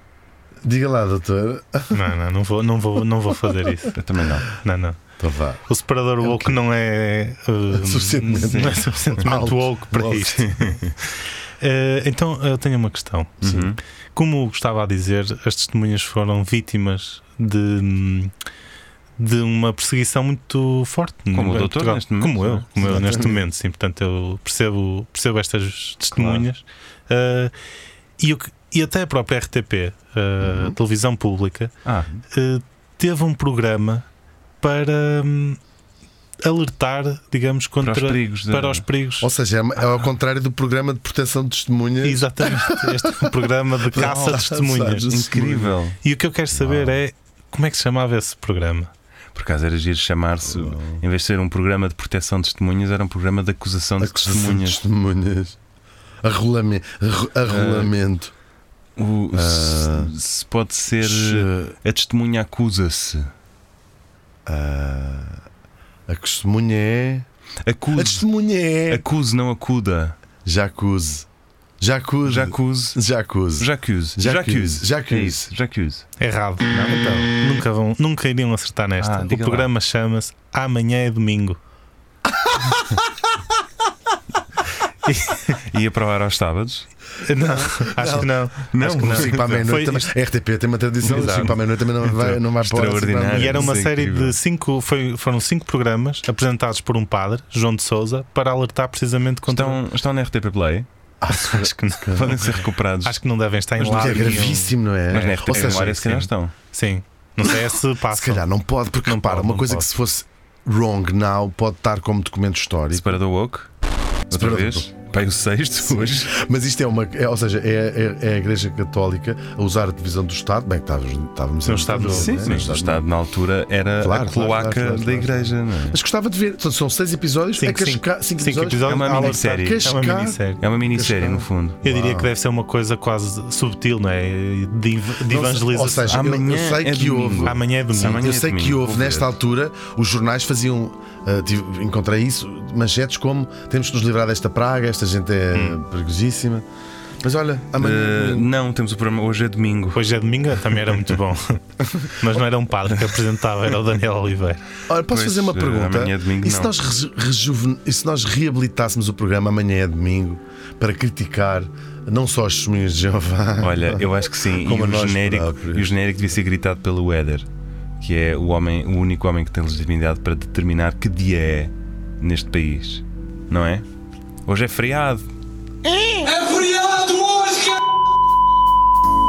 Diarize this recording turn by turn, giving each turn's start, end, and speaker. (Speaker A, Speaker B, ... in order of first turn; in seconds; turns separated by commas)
Speaker A: 0.6-2.0, Speaker B: 1.9-4.0, Speaker C: 4.0-4.5, Speaker B: 4.6-5.0, Speaker A: 5.2-5.6, Speaker B: 5.7-10.8, Speaker A: 6.2-6.5, Speaker A: 7.7-10.4, Speaker C: 8.4-9.4, Speaker C: 10.1-11.0, Speaker B: 11.6-13.4, Speaker C: 13.4-13.8, Speaker A: 13.4-13.7, Speaker B: 14.2-18.3, Speaker B: 19.2-27.5, Speaker C: 21.3-22.7, Speaker A: 22.8-23.4, Speaker C: 26.1-26.4, Speaker B: 28.2-31.7, Speaker A: 30.4-30.8, Speaker C: 31.9-32.2, Speaker B: 32.3-34.0, Speaker B: 34.6-35.6, Speaker B: 36.4-39.3, Speaker C: 37.8-38.9, Speaker A: 39.2-45.8, Speaker B: 42.0-45.4, Speaker C: 43.9-44.5, Speaker C: 45.0-46.0, Speaker B: 46.0-48.9, Speaker A: 46.5-47.0, Speaker C: 49.3-54.8, Speaker A: 50.5-51.0, Speaker A: 54.0-55.6, Speaker A: 56.2-58.3, Speaker C: 57.5-57.9, Speaker C: 59.0-63.3, Speaker A: 59.3-60.1, Speaker A: 61.0-61.8, Speaker A: 64.5-65.4, Speaker A: 66.1-67.3, Speaker C: 67.6-68.3, Speaker A: 67.9-69.0, Speaker C: 68.9-70.2, Speaker A: 70.5-71.3, Speaker A: 71.8-75.5, Speaker C: 72.2-73.0, Speaker C: 73.6-76.0, Speaker B: 76.2-81.6, Speaker C: 76.7-77.3, Speaker C: 79.0-79.7, Speaker B: 85.0-85.6, Speaker C: 85.7-86.9, Speaker B: 87.3-90.1, Speaker A: 87.4-93.7, Speaker C: 88.7-89.8, Speaker C: 91.0-94.4, Speaker B: 91.1-91.5, Speaker B: 93.3-99.8, Speaker C: 99.5-100.9, Speaker A: 101.2-102.5, Speaker B: 101.3-102.3, Speaker C: 102.1-103.2, Speaker B: 103.0-108.5, Speaker C: 103.8-106.5, Speaker A: 104.0-106.2, Speaker A: 108.1-113.2, Speaker B: 109.0-109.9, Speaker C: 112.9-113.7, Speaker C: 114.3-116.3, Speaker A: 114.3-114.9, Speaker A: 115.8-123.0, Speaker B: 121.7-122.6, Speaker C: 121.9-126.0, Speaker A: 124.0-132.3, Speaker B: 127.6-130.6, Speaker C: 128.8-129.9, Speaker C: 130.6-131.8, Speaker B: 131.8-136.2, Speaker A: 135.3-146.7, Speaker C: 136.0-139.3, Speaker B: 137.4-138.3, Speaker A: 147.2-148.5, Speaker C: 147.8-150.0, Speaker B: 149.9-154.6, Speaker C: 150.7-151.2, Speaker C: 152.9-153.2, Speaker A: 154.9-165.9, Speaker C: 155.1-156.8, Speaker C: 163.6-167.5, Speaker C: 168.0-173.9, Speaker C: 174.5-175.3, Speaker C: 176.4-177.5